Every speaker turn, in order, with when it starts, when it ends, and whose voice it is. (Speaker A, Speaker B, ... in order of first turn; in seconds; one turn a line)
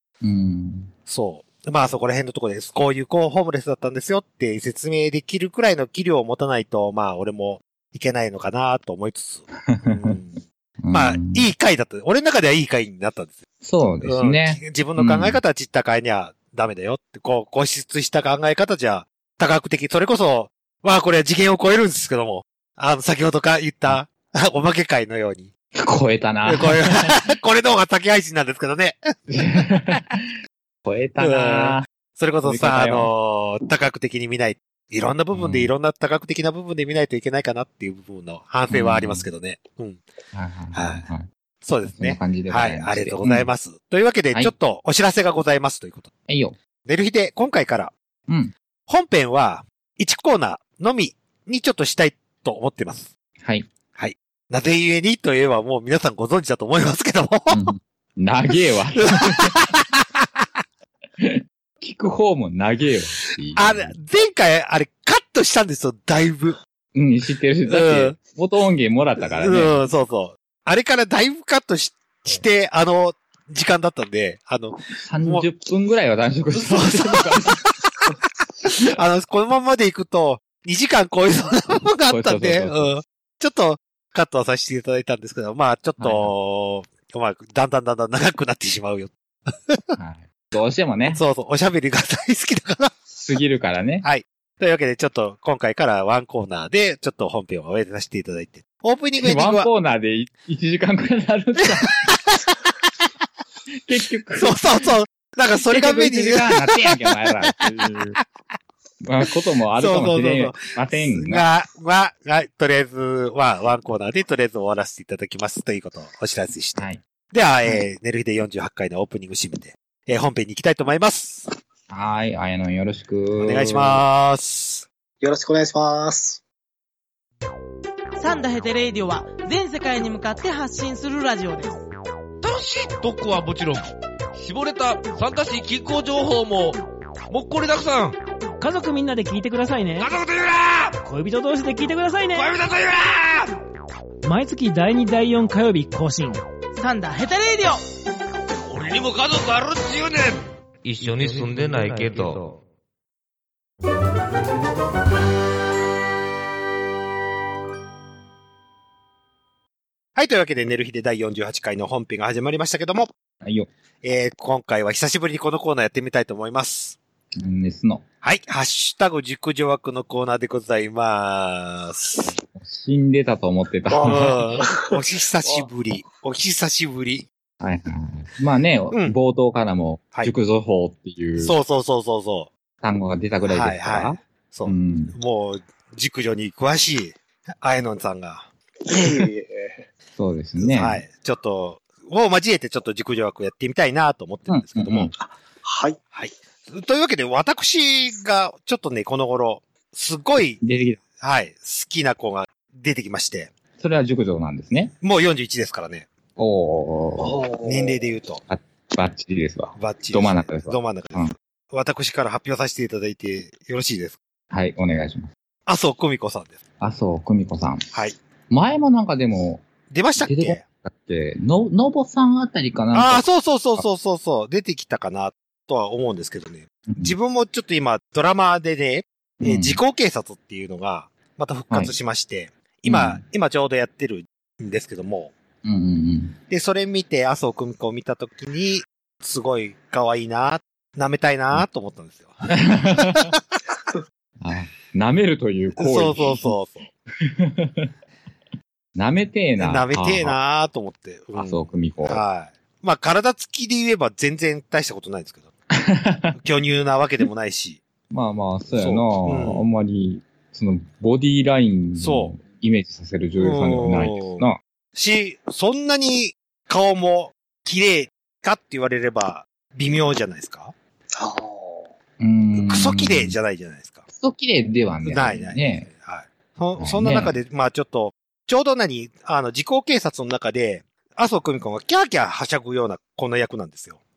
Speaker A: 0.2-0.9
Speaker B: 1.1-13.5
Speaker A: 9.7-10.1
Speaker A: 10.8-11.5
Speaker A: 13.6-15.4
Speaker B: 14.0-25.5
Speaker A: 25.8-27.1
Speaker B: 26.5-29.1
Speaker A: 29.3-30.1
Speaker A: 30.9-31.9
Speaker B: 31.2-40.0
Speaker A: 32.4-33.1
Speaker A: 35.3-35.7
Speaker A: 38.7-39.3
Speaker A: 40.3-41.3
Speaker B: 40.7-41.1
Speaker B: 41.6-46.1
Speaker A: 41.9-43.5
Speaker A: 46.3-46.6
Speaker B: 46.9-47.9
Speaker A: 48.3-48.5
Speaker B: 48.9-53.1
Speaker A: 53.4-53.7
Speaker B: 54.0-57.7
Speaker A: 57.5-59.6
Speaker B: 59.0-60.2
Speaker A: 61.2-64.0
Speaker B: 63.6-66.6
Speaker A: 67.0-69.8
Speaker B: 67.7-68.2
Speaker B: 69.2-75.5
Speaker A: 75.0-77.6
Speaker B: 76.5-78.1
Speaker B: 78.7-89.8
Speaker A: 82.0-82.9
Speaker A: 86.0-86.3
Speaker A: 90.0-91.2
Speaker B: 91.1-93.2
Speaker A: 93.2-94.1
Speaker B: 94.0-99.7
Speaker A: 99.2-102.2
Speaker B: 101.9-102.6
Speaker A: 103.9-104.6
Speaker B: 104.4-107.5
Speaker A: 105.7-108.2
Speaker A: 109.0-111.4
Speaker B: 109.8-121.5
Speaker A: 116.8-117.0
Speaker A: 121.9-124.0
Speaker B: 123.4-124.9
Speaker C: 125.2-126.4
Speaker D: 128.2-131.8
Speaker E: 132.4-138.2
Speaker F: 138.6-140.1
Speaker E: 140.0-141.0
Speaker F: 141.0-142.5
Speaker E: 142.3-143.6
Speaker F: 144.2-146.4
Speaker D: 146.8-147.8
Speaker E: 148.7-152.6
Speaker B: 160.2-163.1
Speaker A: 163.4-163.7
Speaker B: 164.0-167.0
Speaker A: 167.4-168.1
Speaker B: 168.2-172.3
Speaker A: 172.3-174.4
Speaker C: 173.9-174.9
Speaker B: 174.1-177.3
Speaker C: 175.4-175.7
Speaker A: 177.6-181.6
Speaker B: 178.9-179.2
Speaker B: 181.4-182.5
Speaker A: 182.8-185.2
Speaker B: 183.4-188.5
Speaker C: 188.9-189.8
Speaker A: 190.2-191.0
Speaker B: 190.6-195.1
Speaker A: 194.5-195.1
Speaker C: 195.2-196.0
Speaker B: 196.1-200.6
Speaker A: 200.6-201.0
Speaker B: 201.2-203.5
Speaker A: 203.8-204.9
Speaker B: 205.0-206.1
Speaker A: 206.4-207.4
Speaker C: 207.2-208.0
Speaker B: 207.6-208.4
Speaker A: 208.5-211.3
Speaker B: 209.8-214.2
Speaker A: 214.5-215.3
Speaker B: 215.7-216.6
Speaker A: 216.8-217.9
Speaker A: 218.5-223.8
Speaker B: 219.9-220.6
Speaker B: 222.9-235.3
Speaker A: 226.9-227.2
Speaker A: 229.4-229.8
Speaker A: 231.7-231.9
Speaker A: 232.9-233.2
Speaker A: 235.6-236.4
Speaker B: 236.5-243.4
Speaker A: 242.6-243.3
Speaker A: 244.4-246.6
Speaker B: 245.8-246.9
Speaker A: 247.2-247.9
Speaker A: 248.9-250.4
Speaker B: 249.6-255.5
Speaker A: 251.3-252.2
Speaker A: 255.7-256.4
Speaker B: 256.4-257.8
Speaker A: 258.1-264.6
Speaker B: 258.7-259.6
Speaker B: 262.0-262.4
Speaker B: 263.4-270.7
Speaker C: 271.1-271.9
Speaker A: 272.2-273.4
Speaker B: 272.6-274.1
Speaker A: 274.1-275.9
Speaker B: 275.0-284.0
Speaker A: 276.8-277.4